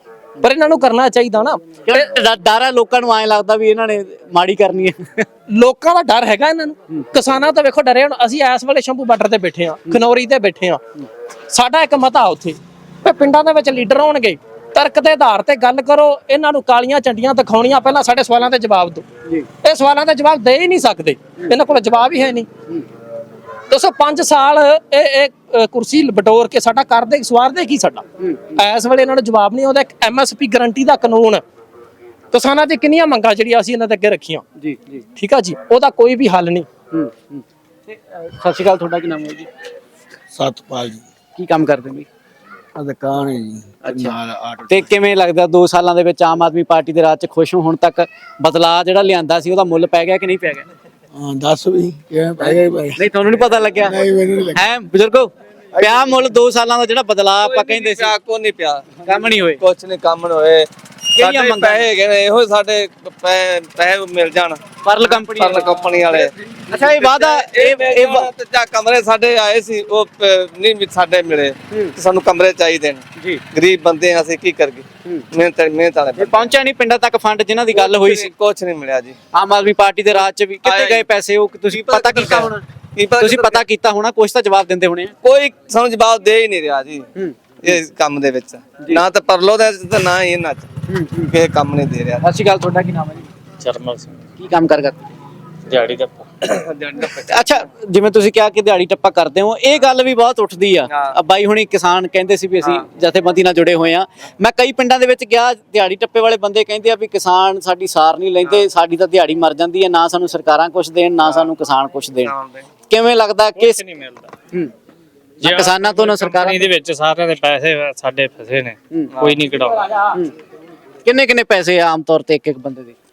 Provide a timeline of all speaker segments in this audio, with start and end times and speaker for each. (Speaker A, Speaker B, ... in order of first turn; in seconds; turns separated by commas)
Speaker A: 0.4-2.1, Speaker B: 1.9-5.2, Speaker A: 5.5-10.8, Speaker A: 11.5-19.1, Speaker A: 19.6-22.5, Speaker A: 23.7-28.0, Speaker B: 28.2-28.5, Speaker A: 28.6-31.4, Speaker A: 32.3-34.4, Speaker B: 34.6-35.0, Speaker A: 35.1-36.7, Speaker B: 36.9-39.5, Speaker C: 40.3-41.1, Speaker B: 41.4-42.1, Speaker C: 42.8-44.9, Speaker B: 43.8-44.1, Speaker B: 44.7-50.7, Speaker C: 51.1-53.0, Speaker B: 52.4-53.9, Speaker C: 53.7-54.6, Speaker B: 54.5-58.1, Speaker D: 55.8-56.1, Speaker D: 57.4-58.9, Speaker B: 59.0-59.6, Speaker D: 59.6-76.5, Speaker B: 61.1-61.9, Speaker B: 64.8-68.3, Speaker B: 76.2-78.3, Speaker D: 77.7-79.2, Speaker B: 79.3-82.6, Speaker D: 80.6-81.0, Speaker D: 81.7-83.6, Speaker B: 83.2-85.1, Speaker D: 85.2-87.0, Speaker D: 87.6-90.7, Speaker B: 90.9-91.3, Speaker D: 91.3-92.2, Speaker B: 92.2-93.3, Speaker E: 93.6-94.2, Speaker B: 94.4-95.0, Speaker E: 95.7-96.2, Speaker D: 96.5-97.4, Speaker B: 97.1-112.3, Speaker D: 100.9-101.1, Speaker D: 112.2-112.6, Speaker B: 112.9-113.8, Speaker E: 113.6-114.3, Speaker B: 115.4-116.7, Speaker E: 115.4-119.9, Speaker D: 119.2-119.6, Speaker B: 121.0-122.9